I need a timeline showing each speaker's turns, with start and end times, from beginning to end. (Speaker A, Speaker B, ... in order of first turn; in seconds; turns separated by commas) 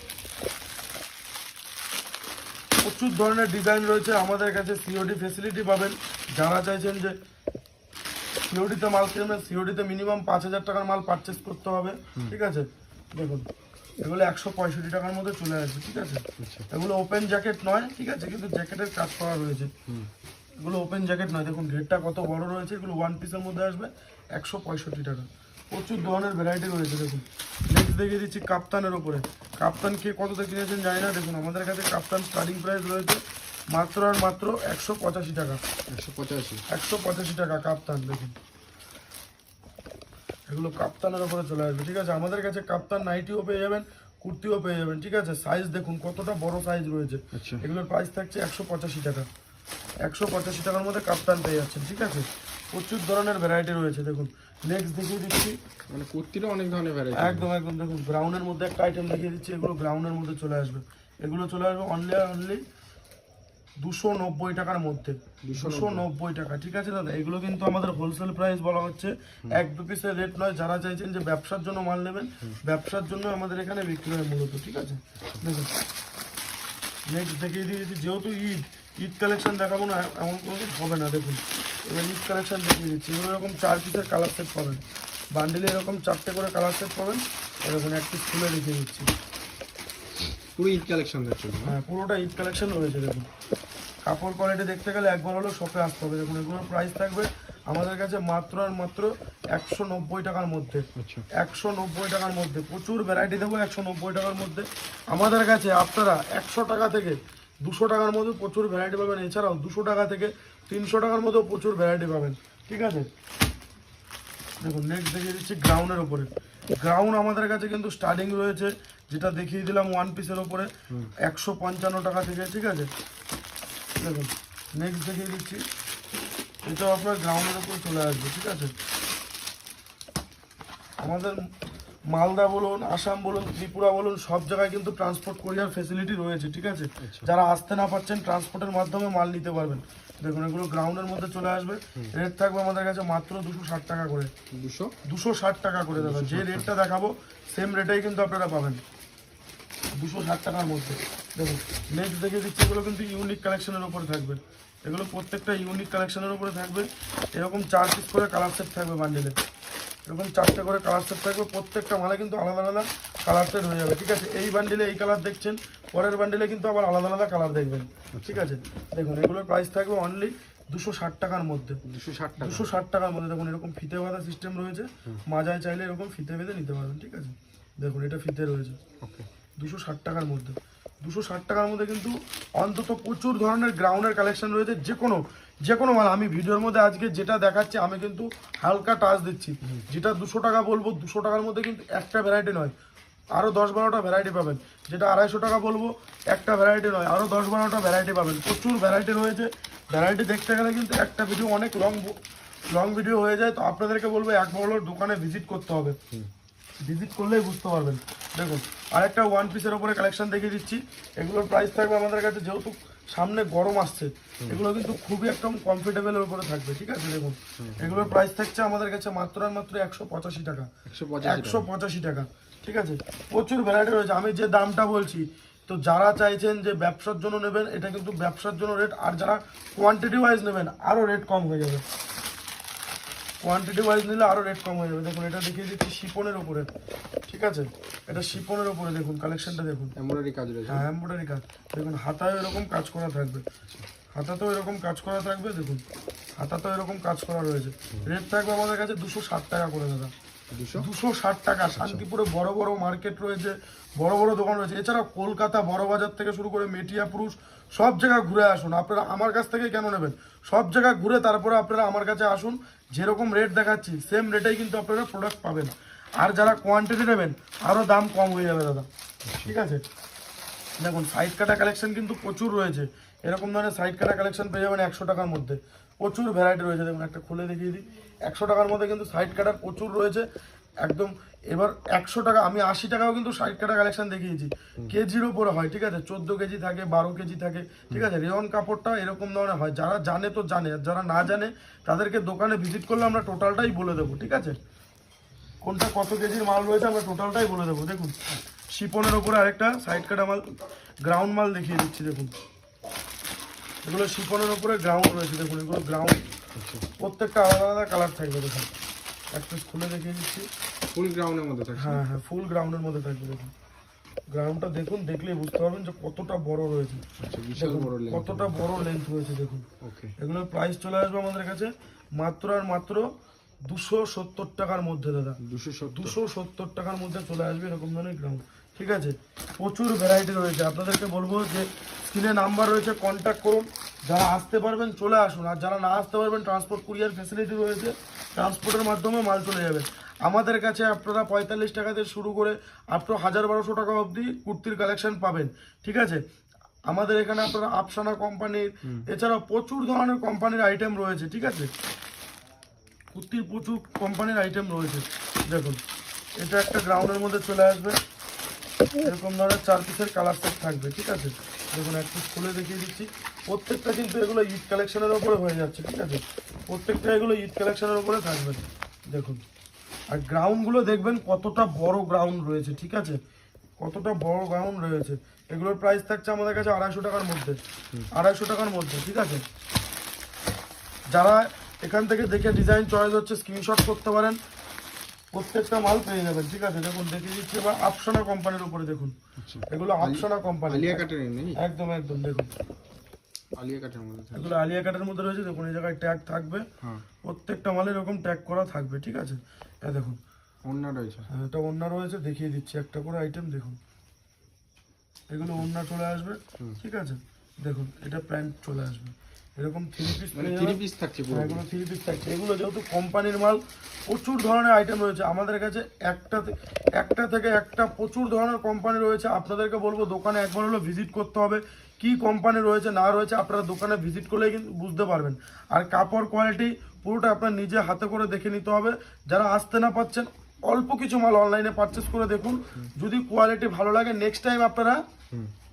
Speaker A: 2.8-7.2, Speaker A: 8.5-13.5, Speaker A: 14.0-19.7, Speaker B: 16.4-16.7, Speaker A: 20.6-33.2, Speaker A: 33.7-35.6, Speaker B: 35.9-36.6, Speaker A: 36.7-38.4, Speaker A: 40.5-49.3, Speaker B: 47.3-47.6, Speaker A: 50.0-55.6, Speaker B: 55.9-57.5, Speaker A: 57.1-62.6, Speaker A: 63.8-75.7, Speaker B: 65.4-66.1, Speaker A: 77.1-89.1, Speaker B: 90.5-91.8, Speaker A: 91.6-93.3, Speaker A: 94.0-113.1, Speaker B: 101.0-101.2, Speaker A: 114.6-122.9, Speaker A: 124.0-125.6, Speaker A: 126.6-128.7, Speaker A: 131.0-131.5, Speaker A: 132.1-144.3, Speaker B: 137.0-137.3, Speaker B: 144.5-144.9, Speaker A: 145.0-148.8, Speaker B: 145.9-146.7, Speaker A: 149.9-159.4, Speaker A: 160.1-171.8, Speaker B: 168.1-168.4, Speaker B: 171.8-172.7, Speaker A: 172.4-178.8, Speaker B: 179.0-179.3, Speaker A: 179.6-192.7, Speaker A: 193.4-202.2, Speaker A: 202.7-206.0, Speaker A: 206.8-220.7, Speaker B: 217.6-218.2, Speaker B: 220.9-221.7, Speaker A: 221.2-231.8, Speaker A: 233.4-236.7, Speaker A: 237.3-239.9, Speaker B: 238.1-238.4, Speaker B: 239.9-240.9, Speaker A: 240.7-243.4, Speaker A: 244.1-245.8, Speaker A: 246.4-250.1, Speaker B: 250.5-250.9, Speaker A: 250.7-268.9, Speaker B: 251.7-252.0, Speaker B: 269.2-269.5, Speaker A: 269.4-269.8, Speaker A: 270.8-280.2, Speaker A: 280.8-294.6, Speaker A: 295.6-298.2, Speaker A: 298.7-300.5, Speaker A: 301.1-302.3, Speaker A: 303.8-306.2, Speaker B: 306.6-306.9, Speaker A: 307.0-308.7, Speaker A: 309.3-310.5, Speaker B: 310.9-312.0, Speaker A: 311.8-313.5, Speaker A: 314.3-317.0, Speaker B: 317.2-318.6, Speaker A: 317.6-319.7, Speaker B: 319.8-320.1, Speaker A: 320.2-323.1, Speaker A: 323.6-346.2, Speaker B: 325.4-326.2, Speaker A: 346.9-351.7, Speaker A: 353.1-355.8, Speaker A: 356.4-358.0, Speaker A: 359.0-369.4, Speaker A: 370.1-373.2, Speaker A: 373.8-377.6, Speaker A: 378.1-379.4, Speaker A: 381.1-384.4, Speaker A: 385.3-389.2, Speaker B: 389.4-391.6, Speaker A: 389.7-392.5, Speaker B: 393.6-394.5, Speaker A: 394.3-396.7, Speaker A: 397.2-400.2, Speaker B: 400.6-401.3, Speaker A: 401.3-403.8, Speaker A: 405.3-435.0, Speaker B: 410.3-411.6